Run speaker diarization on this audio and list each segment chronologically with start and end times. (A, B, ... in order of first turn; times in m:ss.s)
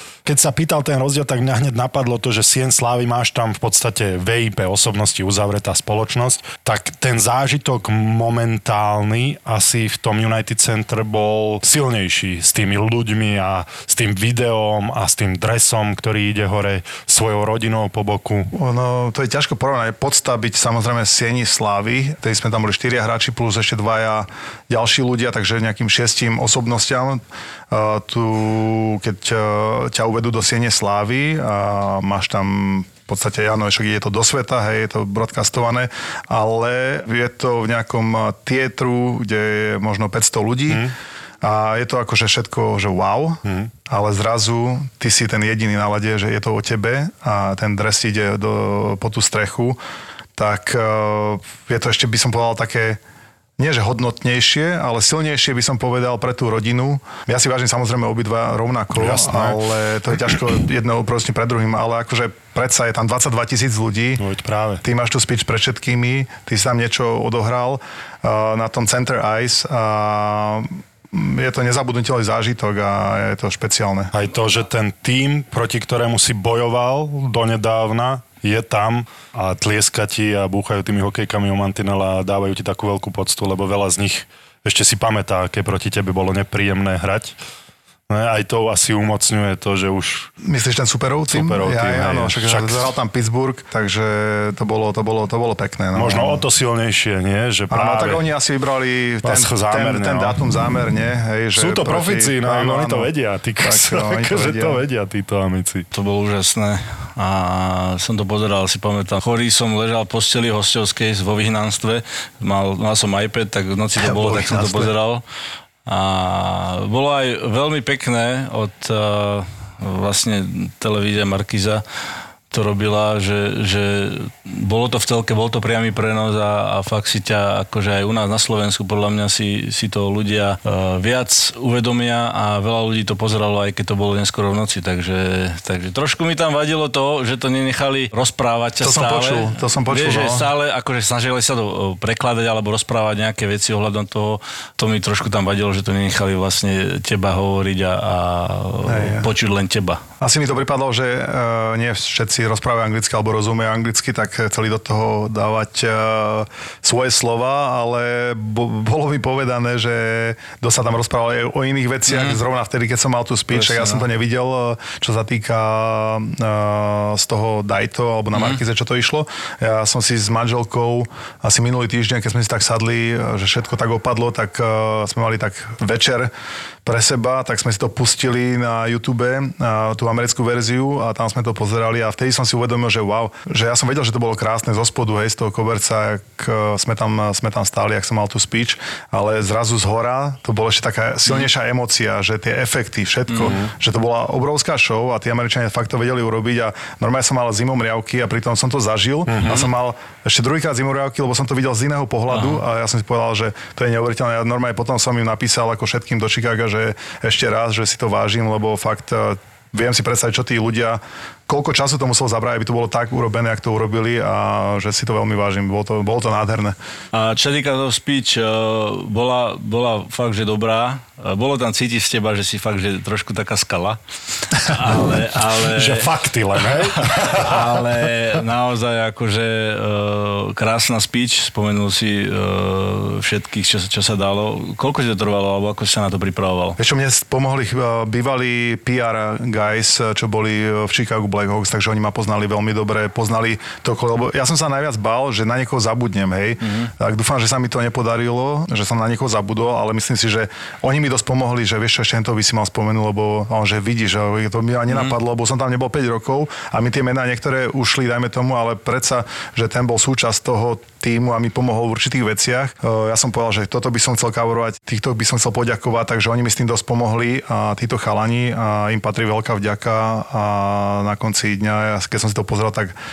0:00.2-0:18.5 A
0:18.5-0:49.8 B
0:40.7-0:40.9 A
0:43.4-0:43.7 A
0:50.4-0:53.0 B
0:53.6-1:04.2 B
0:58.9-0:59.6 A
1:04.2-1:04.8 A
1:04.8-1:14.1 B
1:14.1-1:27.4 A
1:28.1-1:30.3 A
1:30.4-1:36.4 B
1:31.3-1:32.9 A
1:35.9-1:38.3 A
1:37.7-1:44.8 B
1:39.2-1:40.5 A
1:41.5-1:45.9 A
1:45.9-1:55.2 C
1:54.0-1:54.9 B
1:55.9-2:01.8 C
2:02.5-2:30.0 C
2:18.8-2:20.5 B
2:28.9-2:29.3 B
2:30.2-2:56.3 B
2:42.1-2:42.4 C
2:43.5-2:44.1 C
2:48.3-2:48.6 C
2:56.8-3:36.8 B
3:13.4-3:13.7 A
3:19.3-3:19.7 A
3:22.3-3:22.6 C
3:37.1-3:44.0 C
3:44.5-3:46.1 C
3:45.7-3:47.6 A
3:47.2-3:56.8 C
3:56.8-4:33.0 B
4:06.6-4:06.9 C
4:14.9-4:15.2 C